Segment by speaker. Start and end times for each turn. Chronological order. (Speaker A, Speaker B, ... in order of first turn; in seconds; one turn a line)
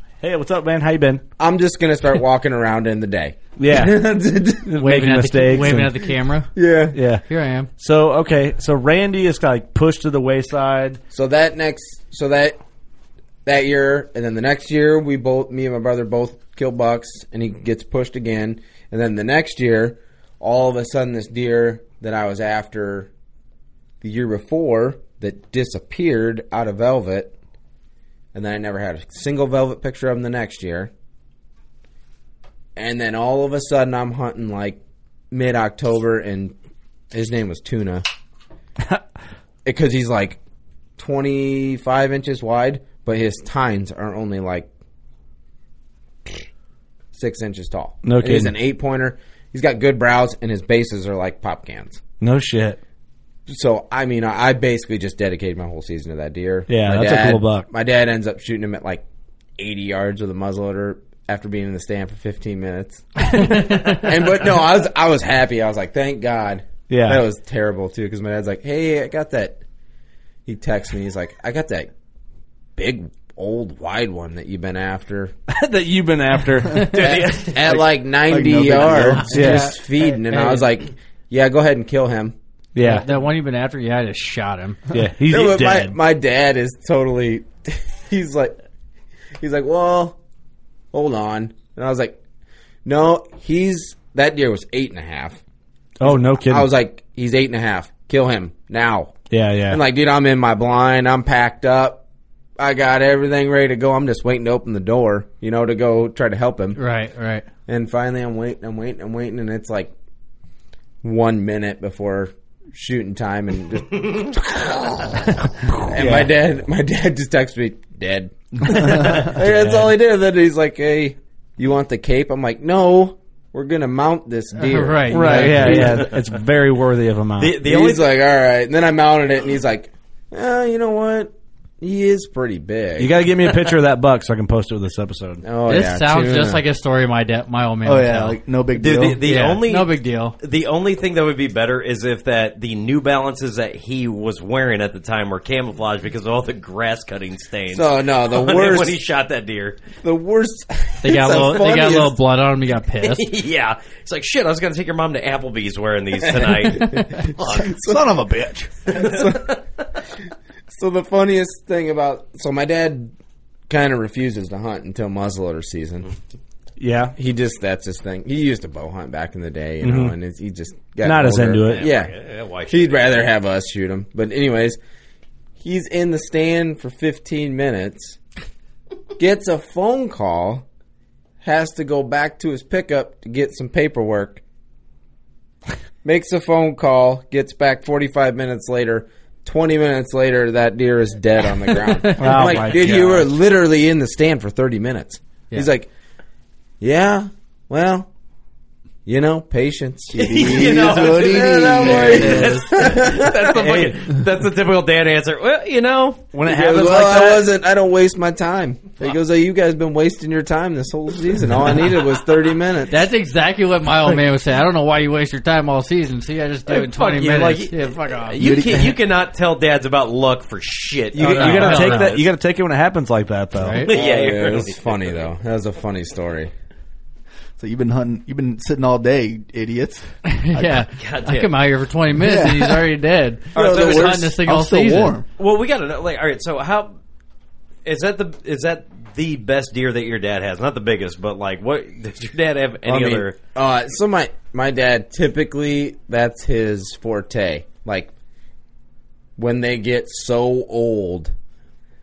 Speaker A: 0.2-1.2
Speaker B: 1.4-4.7
Speaker A: 3.6-4.0
Speaker A: 4.7-6.0
Speaker C: 4.8-6.5
Speaker B: 6.5-7.0
Speaker A: 6.9-7.2
Speaker C: 7.2-7.7
Speaker A: 7.8-11.0
Speaker B: 11.1-12.6
Speaker B: 13.4-23.1
Speaker B: 24.0-27.3
Speaker B: 28.3-30.9
Speaker B: 32.8-36.5
Speaker B: 37.1-38.0
Speaker B: 39.6-40.4
Speaker B: 41.0-44.7
Speaker B: 47.1-52.0
Speaker A: 48.0-48.5
Speaker A: 52.2-52.8
Speaker B: 53.5-59.0
Speaker A: 56.7-57.7
Speaker B: 59.6-69.6
Speaker C: 63.3-64.1
Speaker A: 66.9-67.2
Speaker B: 70.5-71.9
Speaker B: 72.8-75.3
Speaker A: 75.5-77.3
Speaker D: 76.9-77.7
Speaker B: 77.1-82.3
Speaker E: 77.7-79.4
Speaker A: 79.3-79.7
Speaker C: 79.3-80.7
Speaker A: 82.7-83.1
Speaker C: 82.8-84.8
Speaker A: 84.9-86.0
Speaker B: 85.2-88.6
Speaker B: 89.4-90.2
Speaker B: 90.9-92.2
Speaker B: 92.8-95.4
Speaker A: 96.0-96.7
Speaker B: 96.0-99.1
Speaker A: 99.3-99.8
Speaker B: 99.7-102.0
Speaker B: 102.6-106.8
Speaker C: 106.7-107.5
Speaker B: 107.7-109.9
Speaker B: 111.0-126.1
Speaker A: 115.9-116.3
Speaker A: 118.7-119.9
Speaker C: 124.5-126.0
Speaker A: 125.1-127.5
Speaker D: 127.4-128.1
Speaker B: 127.6-133.2
Speaker A: 133.0-135.4
Speaker B: 135.4-136.6
Speaker C: 135.7-138.4
Speaker E: 137.8-139.2
Speaker D: 138.8-149.8
Speaker C: 139.2-140.3
Speaker B: 147.7-149.0
Speaker B: 150.0-152.2
Speaker C: 151.0-153.3
Speaker D: 153.0-157.7
Speaker B: 156.4-158.0
Speaker E: 157.6-158.7
Speaker D: 158.9-159.5
Speaker B: 158.9-159.6
Speaker B: 160.7-163.1
Speaker B: 163.7-166.1
Speaker A: 166.8-167.1
Speaker B: 167.2-172.1
Speaker A: 169.8-170.1
Speaker A: 171.0-171.9
Speaker D: 171.7-173.3
Speaker B: 172.7-174.8
Speaker B: 175.6-178.2
Speaker B: 179.2-180.7
Speaker B: 181.4-184.4
Speaker B: 186.0-195.9
Speaker C: 192.1-192.3
Speaker A: 192.2-193.3
Speaker B: 196.8-198.1
Speaker B: 199.1-203.4
Speaker E: 200.1-202.6
Speaker D: 200.2-206.3
Speaker A: 203.5-204.0
Speaker A: 206.3-207.5
Speaker B: 206.4-213.0
Speaker C: 212.9-218.4
Speaker D: 216.7-222.2
Speaker E: 218.4-218.9
Speaker A: 221.1-223.8
Speaker C: 221.2-222.2
Speaker C: 223.6-223.9
Speaker D: 223.9-225.2
Speaker B: 223.9-226.5
Speaker E: 227.6-230.8
Speaker C: 230.2-235.2
Speaker D: 231.0-231.5
Speaker E: 232.1-232.9
Speaker E: 233.6-235.2
Speaker B: 233.6-234.2
Speaker D: 233.6-234.1
Speaker D: 235.4-236.9
Speaker D: 237.8-243.3
Speaker B: 242.8-248.1
Speaker B: 249.4-251.3